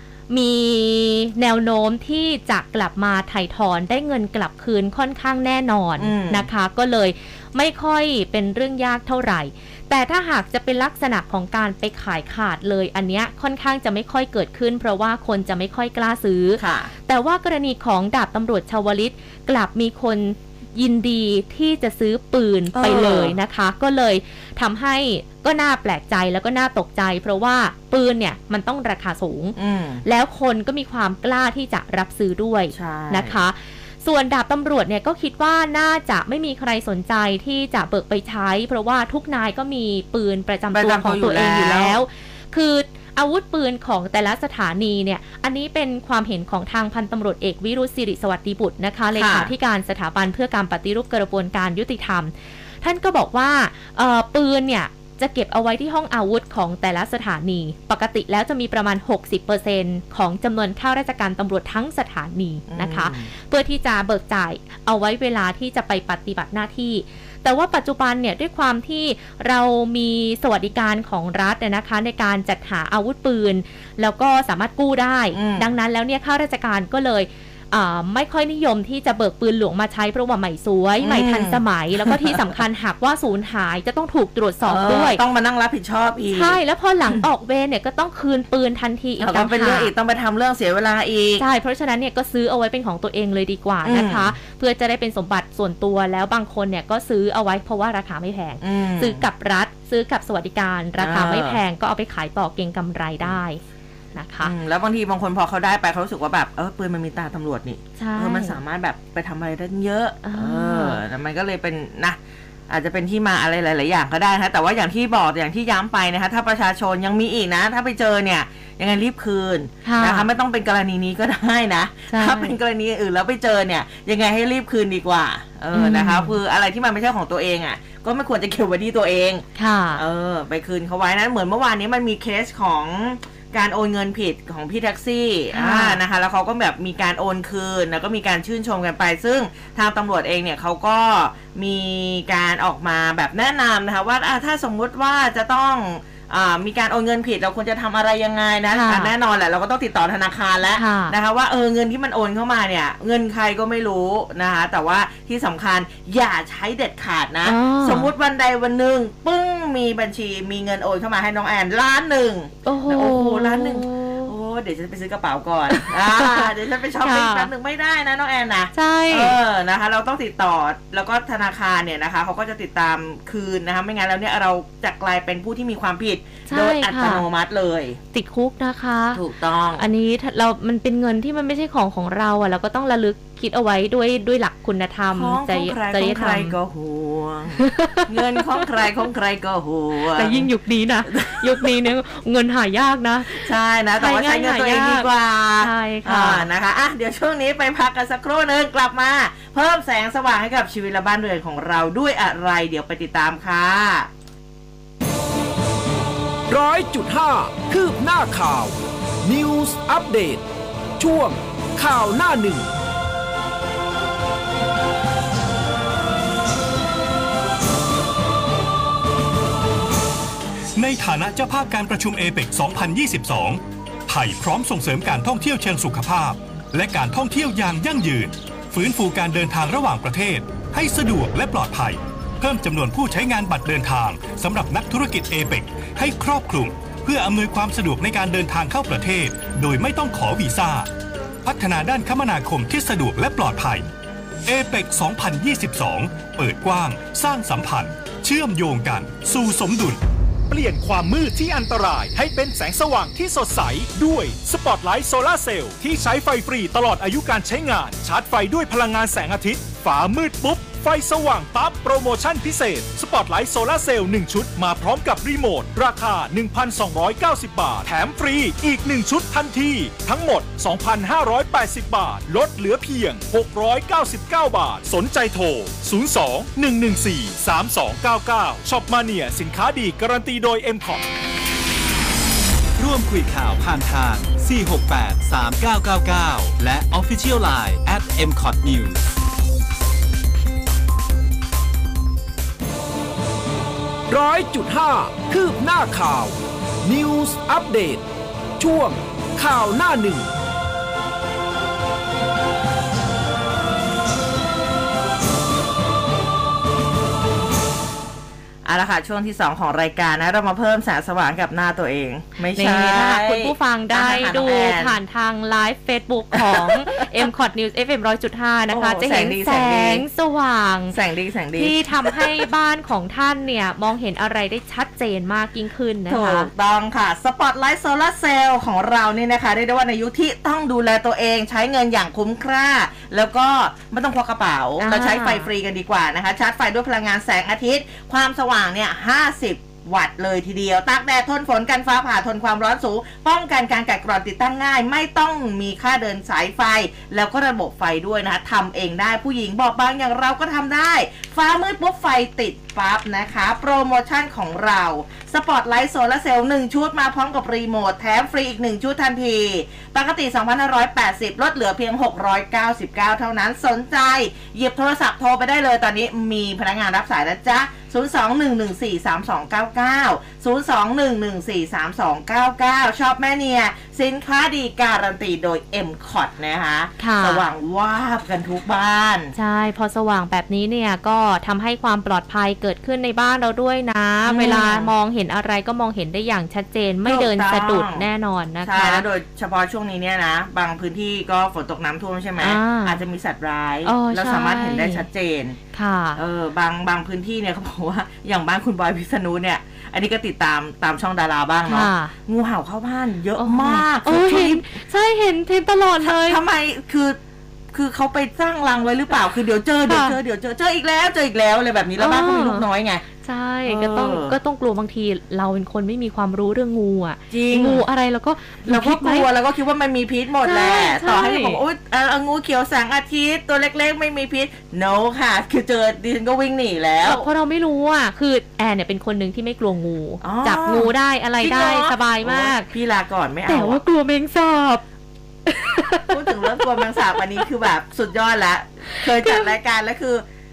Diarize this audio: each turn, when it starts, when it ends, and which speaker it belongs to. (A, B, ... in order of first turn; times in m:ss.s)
0:00.3-1:25.2 A
0:06.0-0:06.5 B
0:16.6-0:16.9 B
0:22.7-0:23.4 B
0:29.6-0:30.0 B
0:32.7-0:33.4 B
0:40.7-0:42.0 B
0:49.2-0:49.5 B
1:02.7-1:03.3 B
1:15.3-1:15.7 B
1:21.0-1:22.4 B
1:24.6-1:26.6 B
1:26.3-1:29.9 A
1:29.2-1:31.4 B
1:31.4-1:43.6 A
1:33.8-1:34.4 B
1:38.6-1:39.2 B
1:41.0-1:41.6 B
1:44.2-1:44.5 A
1:44.4-1:52.2 B
1:48.0-1:48.6 A
1:50.2-1:51.0 A
1:52.7-2:58.0 B
1:59.8-2:00.3 A
2:02.1-2:02.5 A
2:05.7-2:06.4 A
2:09.6-2:10.0 A
2:15.5-2:16.0 A
2:28.7-2:29.1 A
2:30.8-2:31.2 A
2:37.4-2:38.1 A
2:42.6-2:44.4 A
2:45.7-2:47.5 A
2:48.8-2:49.4 A
2:56.5-2:57.2 A
2:58.1-2:59.2 A
2:59.2-2:59.9 B
2:59.8-3:06.6 A
3:05.1-3:10.5 B
3:07.6-3:08.8 A
3:10.1-3:16.5 A
3:11.1-3:11.9 B
3:13.3-3:24.1 B
3:26.5-3:30.4 C
3:31.0-3:32.7 C
3:40.8-4:00.9 D
4:01.4-4:03.9 D
4:04.5-4:10.0 D
4:10.5-4:41.0 E
4:42.8-4:49.0 F
4:54.1-4:58.0 C
4:58.6-5:00.3 C
5:08.6-5:15.0 B
5:12.5-5:21.0 A
5:16.3-5:17.3 B
5:18.7-5:20.0 B
5:20.9-5:22.4 B
5:21.6-5:26.5 A
5:26.1-6:19.3 B
5:34.8-5:35.5 A
6:17.0-6:17.5 A
6:19.4-6:29.0 A
6:24.3-6:24.9 B
6:27.0-6:28.1 B
6:28.6-6:35.6 B
6:32.4-6:33.0 A
6:33.9-6:35.0 A
6:35.7-6:36.2 A
6:36.2-6:44.7 B
6:41.7-6:42.2 A
6:43.4-6:46.4 A
6:46.0-6:47.2 B
6:47.7-6:53.0 B
6:49.9-6:50.2 A
6:52.0-6:52.6 A
6:53.2-6:59.3 A
6:53.7-6:54.4 B
6:57.3-6:57.8 B
6:58.7-7:07.3 B
7:00.4-7:01.6 A
7:07.0-7:12.7 A
7:10.2-7:13.8 B
7:13.5-7:14.8 A
7:15.5-7:17.5 A
7:16.1-7:20.2 B
7:18.9-7:19.5 A